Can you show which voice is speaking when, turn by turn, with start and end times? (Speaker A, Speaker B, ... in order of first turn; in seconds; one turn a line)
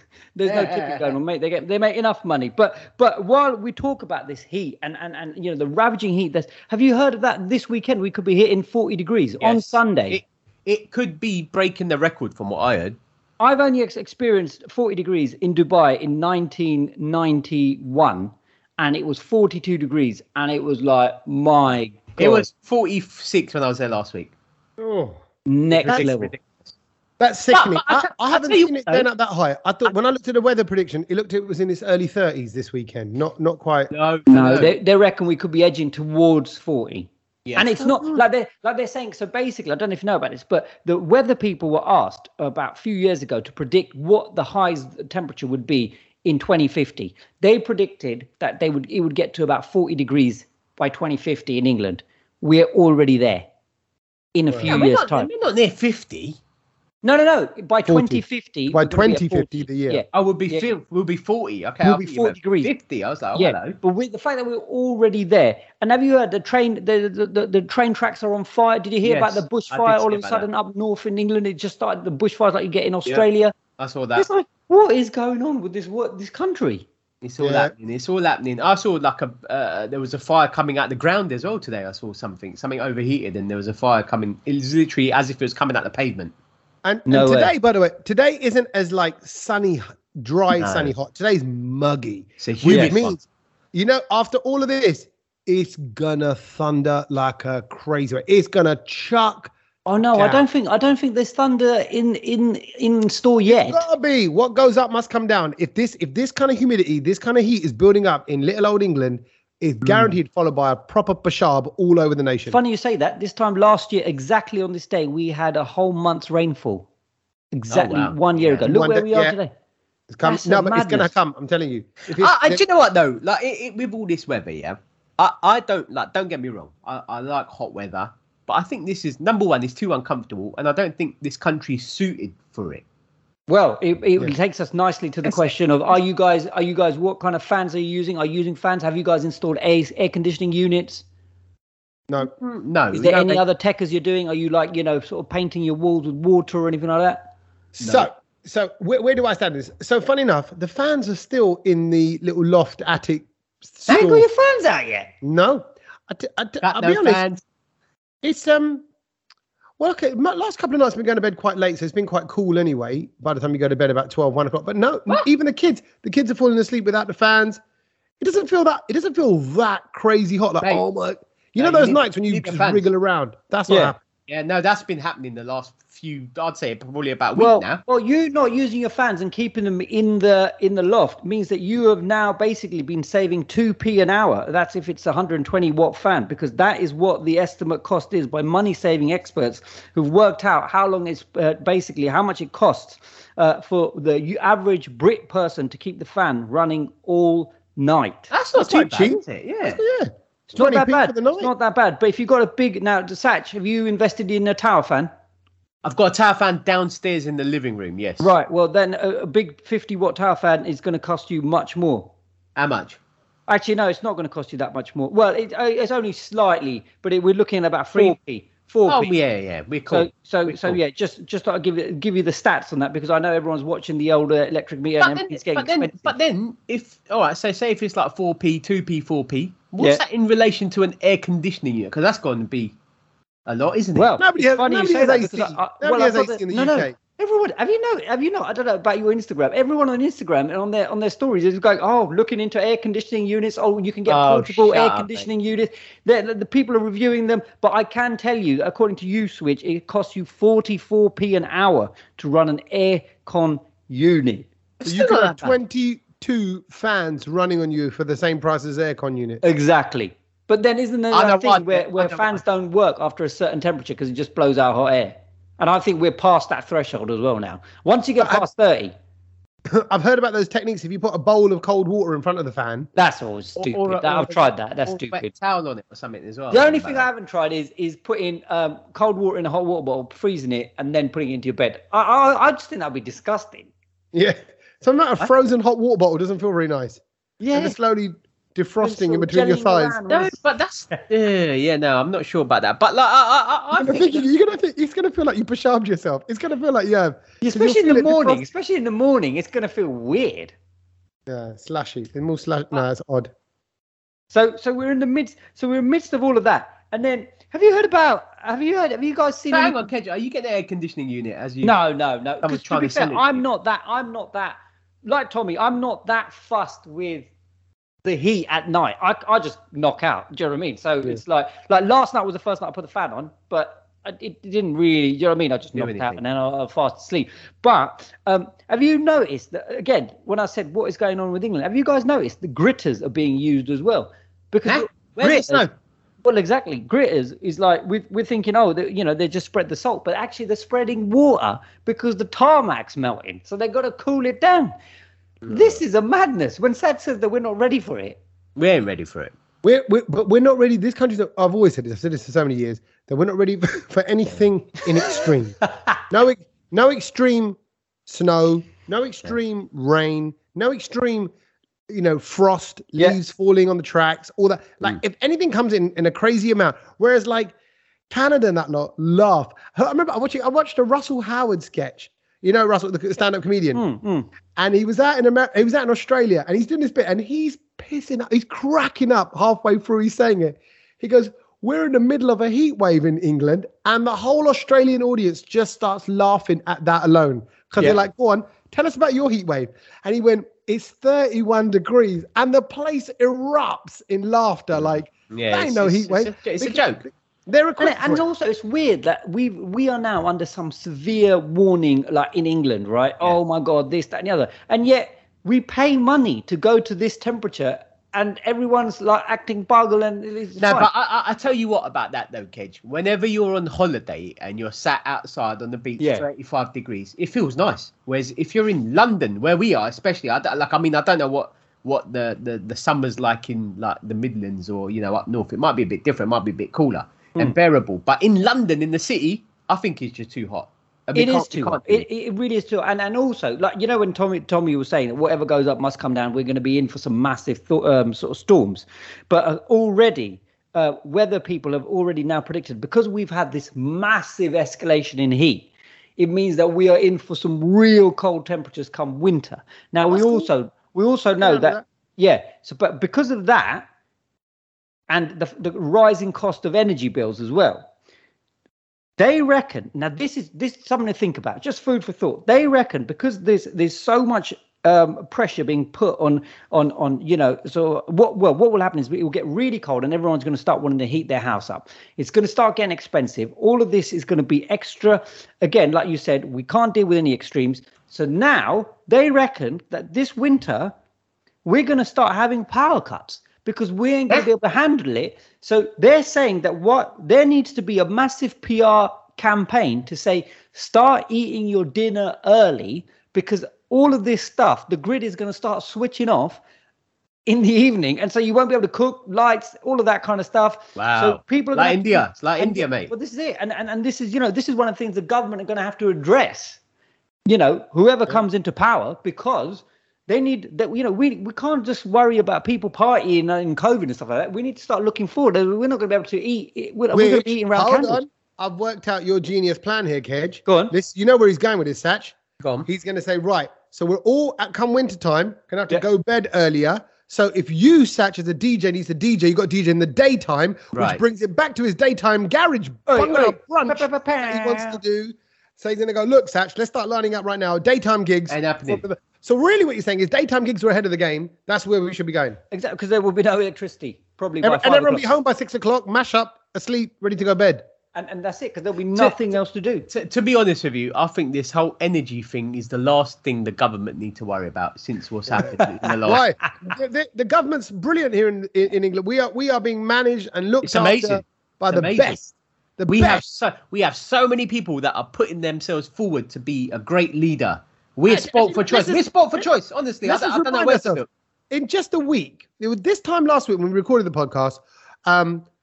Speaker A: 0.3-10.2
Speaker B: 0.5-1.1
Speaker B: 9.4-13.0
Speaker A: 13.4-22.5
Speaker B: 22.2-24.3
Speaker C: 24.8-25.2
Speaker A: 25.4-26.3
Speaker B: 25.7-26.7
Speaker C: 27.2-33.9
Speaker B: 27.5-29.1
Speaker B: 33.9-34.7
Speaker A: 34.3-53.5
Speaker B: 37.5-38.0
Speaker A: 54.3-55.3
Speaker C: 54.5-54.8
Speaker B: 54.7-56.4
Speaker A: 57.0-60.7
Speaker C: 57.9-60.0
Speaker B: 60.1-63.8
Speaker A: 61.8-62.7
Speaker A: 63.3-73.5
Speaker B: 69.0-70.5
Speaker B: 73.8-74.3
Speaker A: 74.1-76.8
Speaker B: 77.2-86.3
Speaker C: 77.4-77.7
Speaker C: 86.8-99.5
Speaker A: 87.1-87.5
Speaker B: 90.5-90.9
Speaker B: 92.4-93.2
Speaker A: 92.7-93.0
Speaker A: 99.8-103.8
Speaker C: 100.1-100.4
Speaker C: 103.5-112.6
Speaker A: 112.5-116.8
Speaker A: 117.5-119.5
Speaker B: 117.7-118.7
Speaker C: 118.7-119.3
Speaker C: 120.1-122.6
Speaker A: 120.2-121.1
Speaker B: 122.1-132.8
Speaker A: 133.5-141.0
Speaker B: 135.2-135.5
Speaker B: 142.2-143.4
Speaker A: 142.9-147.3
Speaker C: 147.8-154.2
Speaker B: 147.8-148.1
Speaker A: 153.9-155.1
Speaker C: 155.2-157.2
Speaker B: 156.6-157.4
Speaker C: 158.2-158.8
Speaker C: 159.8-167.6
Speaker C: 168.2-174.0
Speaker B: 171.6-172.8
Speaker A: 173.7-173.9
Speaker B: 174.3-177.8
Speaker A: 177.3-198.3
Speaker B: 198.3-199.8
Speaker C: 198.5-201.5
Speaker A: 200.5-205.1
Speaker B: 205.8-208.3
Speaker A: 208.2-212.1
Speaker B: 212.6-213.0
Speaker A: 213.5-219.1
Speaker B: 218.9-220.8
Speaker A: 219.9-226.1
Speaker B: 225.0-232.7
Speaker B: 233.4-234.1
Speaker A: 233.9-254.5
Speaker C: 234.2-236.9
Speaker B: 244.1-245.3
Speaker B: 254.8-255.5
Speaker C: 254.8-259.4
Speaker A: 259.4-268.9
Speaker B: 261.1-262.4
Speaker C: 268.2-268.4
Speaker C: 269.7-272.9
Speaker A: 272.9-275.3
Speaker B: 273.6-277.1
Speaker A: 276.5-283.7
Speaker C: 284.1-287.0
Speaker A: 287.4-287.8
Speaker C: 287.5-290.0
Speaker A: 288.8-290.3
Speaker B: 290.1-294.2
Speaker C: 293.7-298.5
Speaker A: 297.4-300.5
Speaker C: 301.3-303.3
Speaker A: 304.3-309.8
Speaker B: 309.5-311.8
Speaker A: 311.6-317.3
Speaker B: 312.4-313.4
Speaker A: 318.0-335.6
Speaker B: 325.7-326.2
Speaker B: 334.7-335.7
Speaker A: 336.2-344.7
Speaker B: 345.4-345.8
Speaker A: 345.5-348.2
Speaker B: 348.6-349.3
Speaker C: 349.6-355.6
Speaker C: 356.1-361.3
Speaker C: 361.9-367.5
Speaker C: 368.1-373.8
Speaker A: 373.7-374.3
Speaker C: 374.6-398.2
Speaker B: 395.3-397.0
Speaker A: 397.8-410.9
Speaker B: 410.6-432.0
Speaker A: 416.0-416.2
Speaker A: 431.1-453.9
Speaker C: 450.1-450.5
Speaker C: 451.4-451.8
Speaker A: 455.1-457.9
Speaker A: 459.2-480.9
Speaker A: 481.6-496.6
Speaker A: 497.5-506.8
Speaker B: 500.9-503.1
Speaker A: 507.4-518.2
Speaker C: 517.1-542.6
Speaker A: 520.6-520.9
Speaker B: 522.6-522.9
Speaker B: 530.9-531.2
Speaker A: 533.1-535.0
Speaker B: 538.5-539.0
Speaker A: 542.7-545.3
Speaker C: 544.6-547.8
Speaker A: 548.1-550.1
Speaker B: 550.1-556.4
Speaker C: 556.2-563.4
Speaker B: 560.8-562.4
Speaker B: 563.1-571.3
Speaker C: 568.3-569.7
Speaker C: 570.2-575.6